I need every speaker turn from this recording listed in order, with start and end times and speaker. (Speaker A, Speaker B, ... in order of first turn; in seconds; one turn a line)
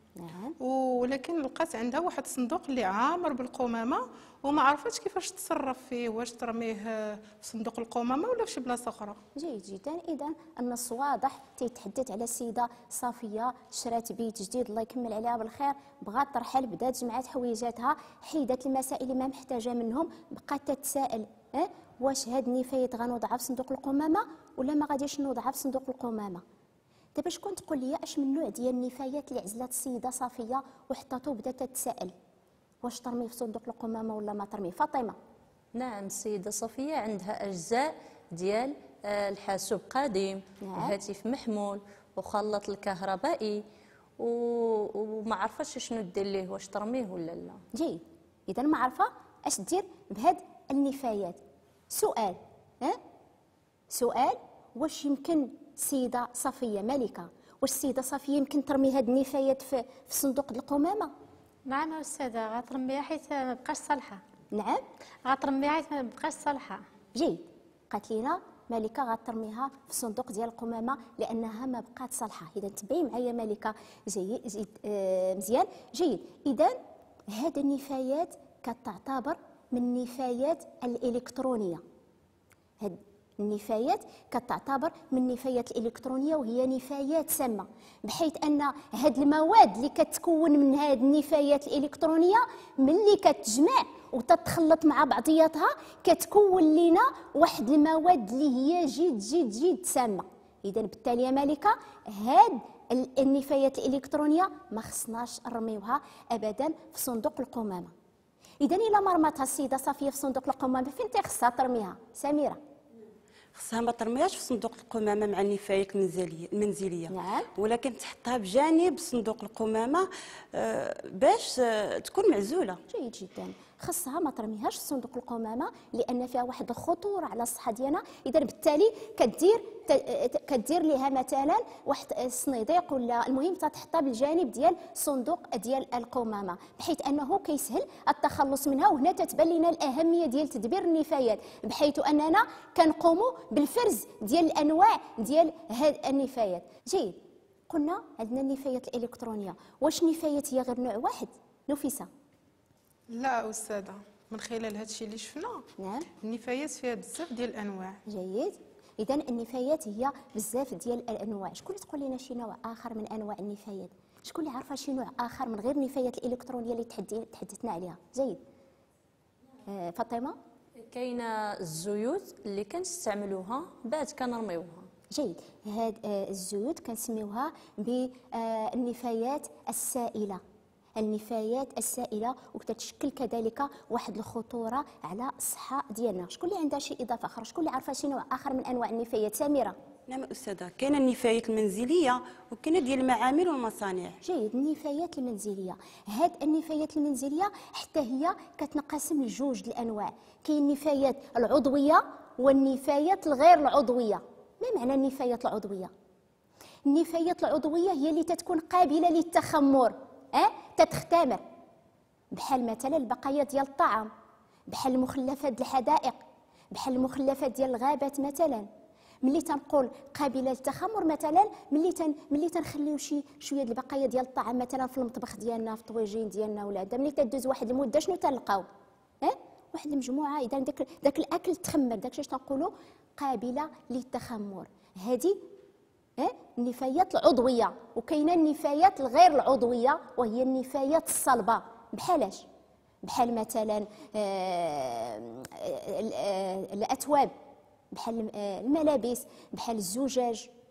Speaker A: 0.2-0.5
Speaker B: 0.6-9.2
Speaker A: 9.3-26.4
Speaker A: 27.1-32.1
Speaker A: 32.8-35.1
Speaker C: 35.7-43.6
Speaker A: 40.6-40.9
Speaker C: 44.2-47.6
Speaker A: 47.7-51.4
Speaker A: 51.9-53.0
Speaker A: 53.9-61.1
Speaker D: 61.7-64.2
Speaker A: 64.5-64.8
Speaker D: 65.2-66.8
Speaker A: 67.2-76.8
Speaker A: 77.3-81.8
Speaker A: 82.8-107.9
Speaker A: 108.6-112.6
Speaker E: 113.5-122.8
Speaker A: 117.1-117.5
Speaker A: 122.9-152.1
Speaker B: 153.1-155.7
Speaker A: 155.8-156.1
Speaker B: 156.2-158.0
Speaker A: 158.1-168.4
Speaker A: 169.7-170.3
Speaker C: 170.8-174.9
Speaker A: 175.1-180.4
Speaker A: 181.0-189.8
Speaker E: 190.1-194.2
Speaker A: 194.2-205.9
Speaker A: 206.8-211.4
Speaker A: 212.3-214.1
Speaker A: 214.7-216.2
Speaker A: 216.7-218.7
Speaker A: 219.2-228.7
Speaker A: 229.2-235.4
Speaker A: 236.2-242.4
Speaker A: 243.0-247.3
Speaker A: 247.9-250.5